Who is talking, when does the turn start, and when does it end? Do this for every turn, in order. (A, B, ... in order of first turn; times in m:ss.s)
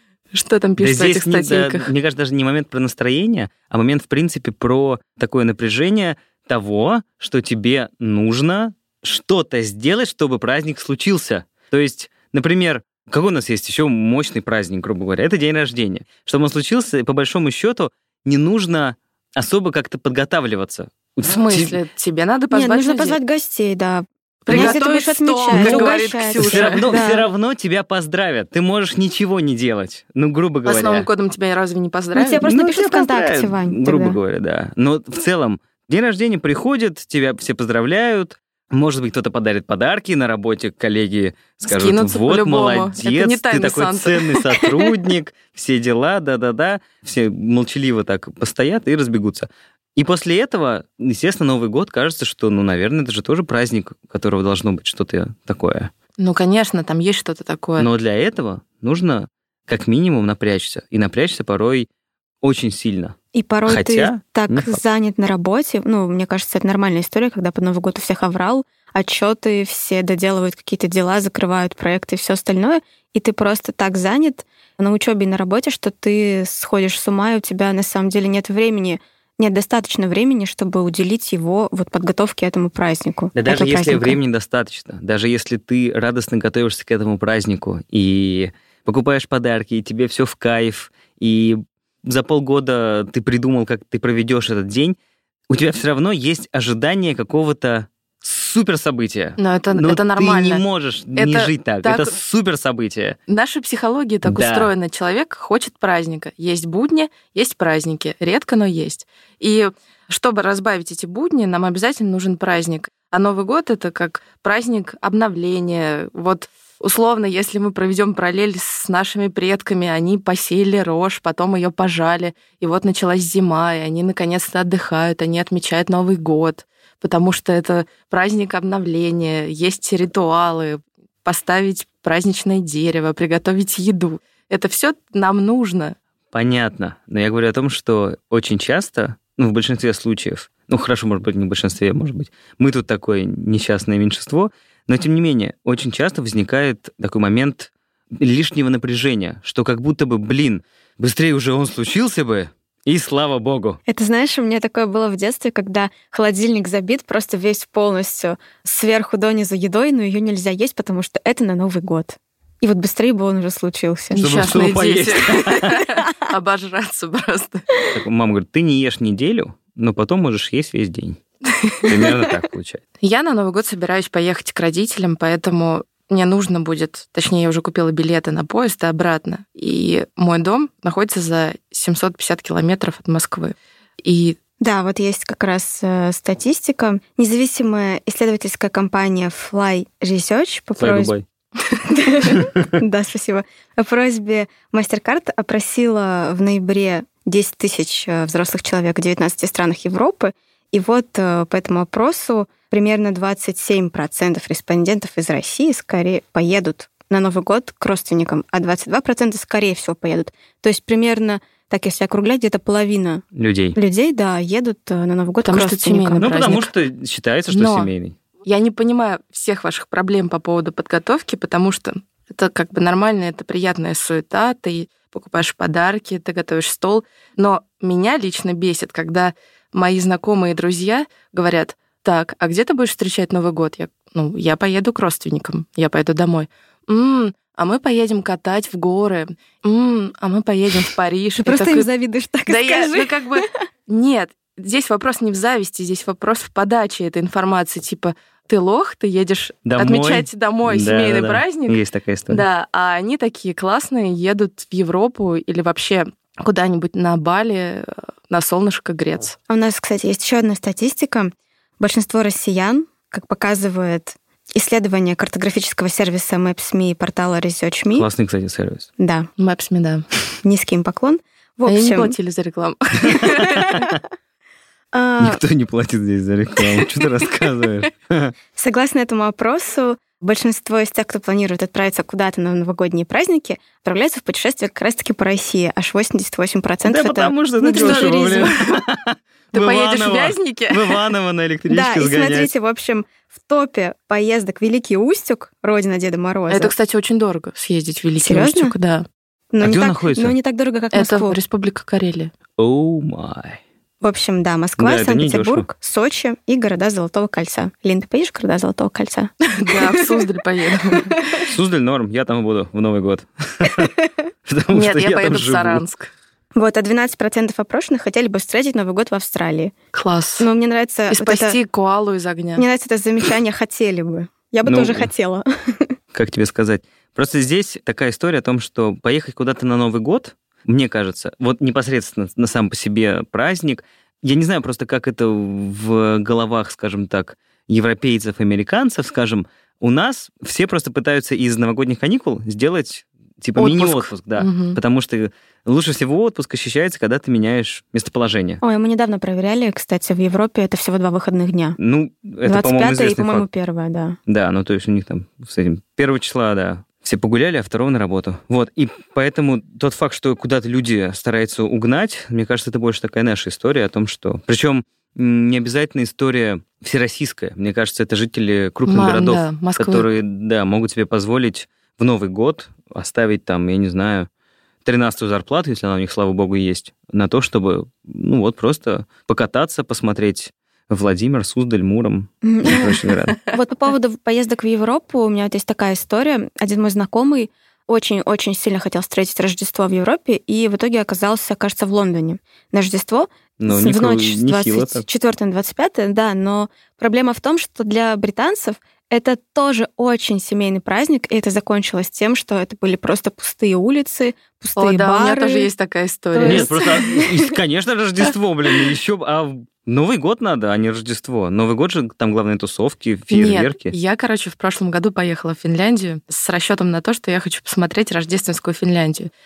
0:00.3-0:01.9 A
0:00.8-0:21.8 B
0:21.2-0:23.2 A
0:22.5-0:27.2 C
0:24.4-0:26.8 A
0:24.5-0:24.7 B
0:25.5-0:31.1 B
0:30.6-0:32.4 A
0:32.1-0:34.2 C
0:32.4-0:55.9 B
0:41.6-0:44.9 A
0:56.2-0:57.9 A
0:57.8-1:01.9 B
1:02.4-1:04.8 B
1:03.3-1:24.2 C
1:23.3-1:35.0 B
1:35.5-1:43.2 B
1:39.4-1:40.6 A
1:41.2-1:42.1 A
1:43.3-2:16.0 A
1:44.2-1:44.7 B
2:16.3-2:33.8 B
2:33.9-2:44.2 C
2:44.1-2:47.6 A
2:44.2-2:45.8 B
2:47.9-2:51.2 B
2:51.6-2:51.9 A
2:51.8-2:52.8 B
2:53.0-3:04.4 A
3:04.6-3:11.1 C
3:10.8-3:11.2 B
3:11.8-3:33.2 C
3:33.3-3:33.8 B
3:33.7-3:36.6 C
3:35.4-3:36.7 A
3:36.2-3:38.2 B
3:37.5-3:37.9 A
3:38.4-4:01.9 A
4:01.4-4:03.6 C
4:02.5-4:19.4 A
4:09.6-4:12.4 B
4:19.5-4:28.1 C
4:27.9-4:28.9 B
4:29.0-4:29.3 C
4:29.4-4:30.0 A
4:30.4-4:32.1 C
4:31.6-4:33.6 A
4:33.4-4:33.9 C
4:33.6-4:34.0 B
4:34.9-4:35.4 C
4:35.2-4:38.3 B
4:38.6-4:48.5 C
4:46.8-4:52.5 B
4:47.8-4:48.8 A
4:49.5-4:51.0 A
4:51.7-4:56.7 C
4:56.5-4:59.0 A
4:58.2-4:58.7 C
4:59.5-5:01.4 C
4:59.6-5:00.3 B
5:00.9-5:02.3 A
5:02.6-5:03.6 B
5:04.0-5:10.2 C
5:04.8-5:05.7 B
5:09.5-5:11.2 A
5:10.9-5:11.2 C
5:11.4-5:13.9 B
5:14.4-5:15.8 B
5:14.7-5:16.1 A
5:16.6-5:19.7 C
5:19.9-5:20.5 A
5:20.4-5:21.6 C
5:21.1-5:22.6 A
5:22.6-5:25.9 C
5:24.6-5:25.1 B
5:26.1-5:48.6 B
5:43.6-5:44.8 A
5:48.6-5:51.8 C
5:51.8-5:53.5 B
5:52.4-5:54.2 C
5:54.3-6:14.3 B
6:08.8-6:10.1 A
6:14.8-6:23.4 B
6:22.4-6:45.7 C
6:33.6-6:35.0 B
6:44.8-6:46.8 A
6:46.3-6:47.5 C
6:46.4-6:53.9 B
6:53.3-6:59.3 A